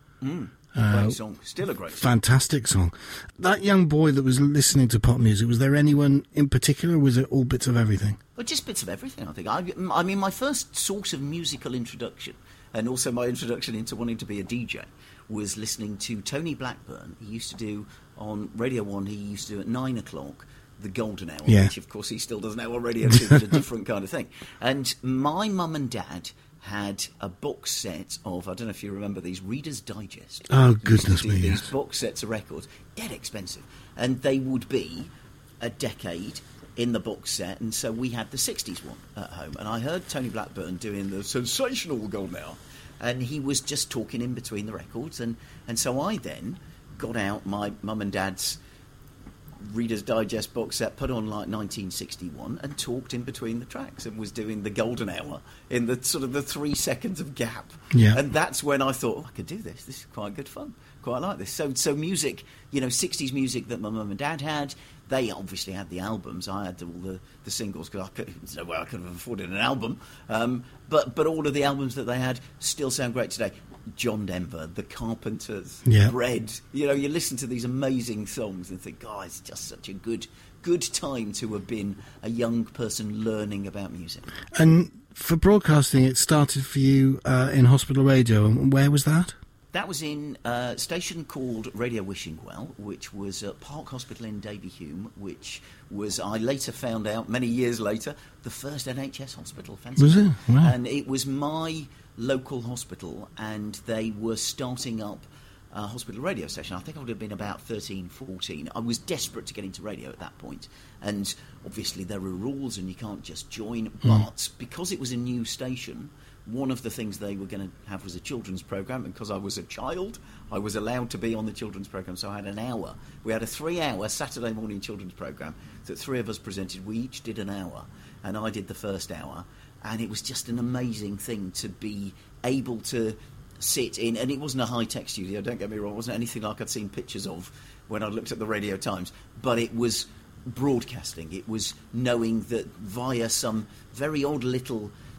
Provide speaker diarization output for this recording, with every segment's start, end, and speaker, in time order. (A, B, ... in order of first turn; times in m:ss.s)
0:00.2-0:02.1 A
0:00.8-0:01.2 B
0:02.0-0:08.2 B
0:08.4-0:48.6 A
0:30.5-0:31.6 B
0:49.6-1:24.3 A
0:57.9-0:58.2 B
1:15.8-1:16.1 B
1:24.5-1:29.4 B
1:29.7-2:24.9 A
1:40.0-1:40.7 B